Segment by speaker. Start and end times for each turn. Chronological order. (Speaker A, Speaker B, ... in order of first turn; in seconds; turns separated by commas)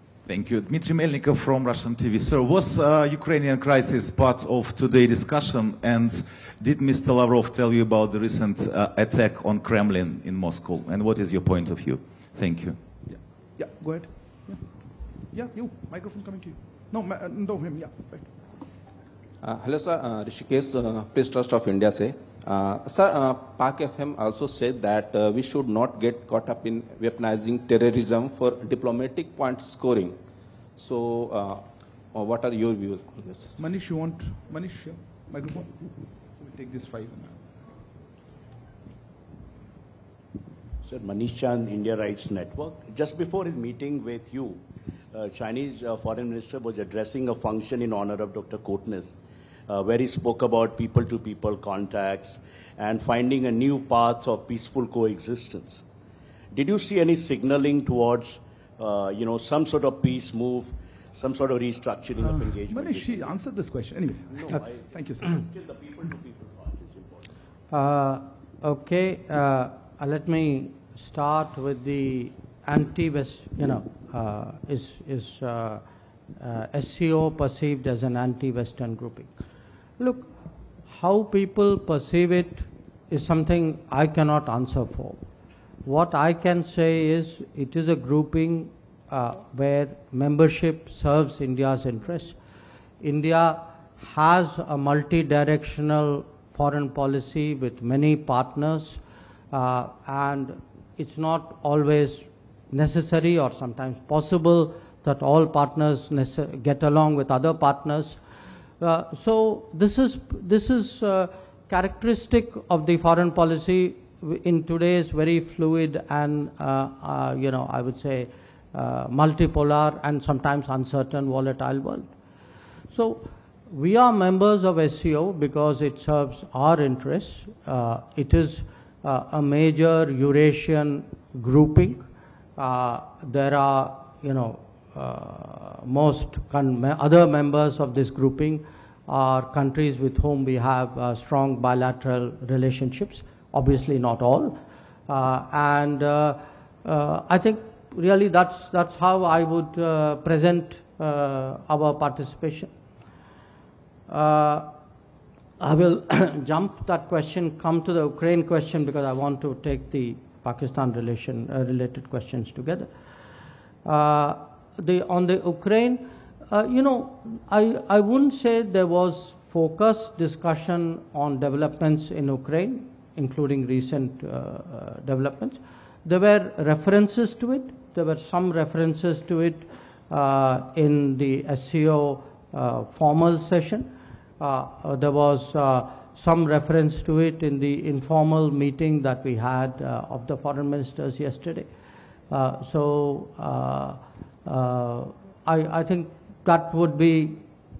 Speaker A: 0.2-12.8, Speaker B: 13.1-14.7, Speaker B: 15.3-18.3, Speaker C: 19.4-30.2, Speaker C: 30.8-33.6, Speaker B: 33.6-35.7, Speaker B: 36.4-37.4, Speaker D: 40.8-44.6, Speaker D: 45.1-49.1, Speaker D: 49.7-55.8, Speaker D: 56.5-63.3, Speaker B: 62.7-65.3, Speaker D: 64.2-67.3, Speaker E: 67.7-75.8, Speaker E: 76.4-79.3, Speaker E: 80.0-80.3, Speaker E: 80.9-85.2, Speaker E: 85.8-92.3, Speaker E: 93.0-99.0, Speaker E: 99.5-108.2, Speaker E: 108.8-122.1, Speaker E: 122.9-132.0, Speaker E: 132.6-152.7, Speaker E: 154.1-154.7, Speaker E: 155.6-162.9, Speaker E: 163.8-191.7, Speaker E: 192.3-197.4